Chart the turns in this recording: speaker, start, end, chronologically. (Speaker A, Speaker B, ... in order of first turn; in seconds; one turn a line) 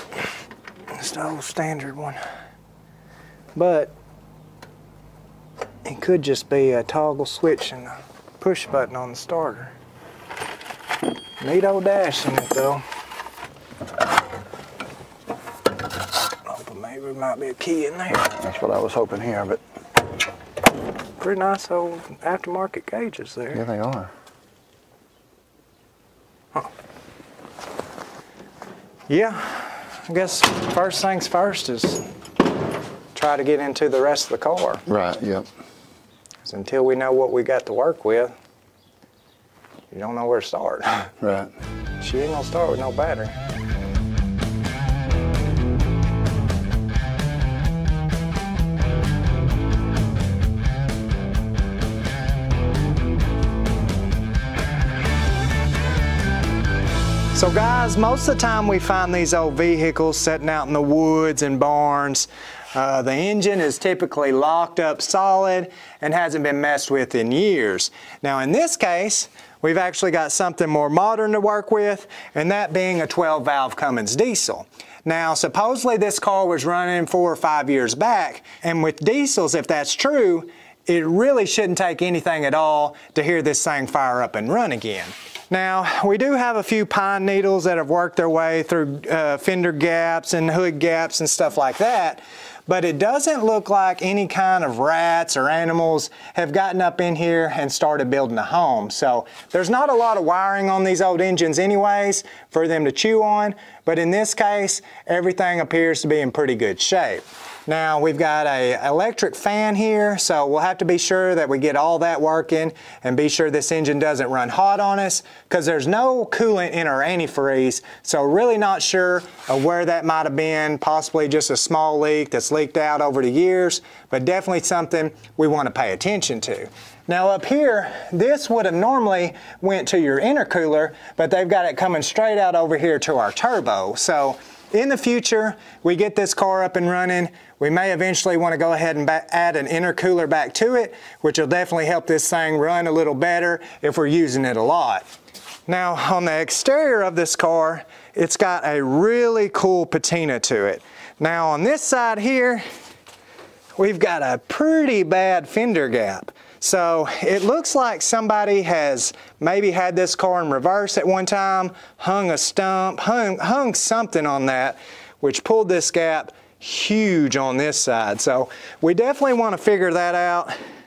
Speaker A: 0.9-2.2
Speaker A: 3.5-3.9
Speaker A: 5.8-9.7
Speaker A: 11.4-12.8
Speaker A: 16.4-18.2
Speaker B: 18.1-19.6
Speaker A: 21.2-23.6
Speaker B: 23.5-24.1
Speaker A: 29.1-32.0
Speaker A: 33.1-34.8
Speaker B: 34.9-35.5
Speaker A: 36.4-38.4
Speaker A: 39.9-41.1
Speaker B: 41.2-41.5
Speaker A: 42.0-43.3
Speaker A: 57.3-145.1
Speaker A: 145.7-152.6
Speaker A: 153.8-170.6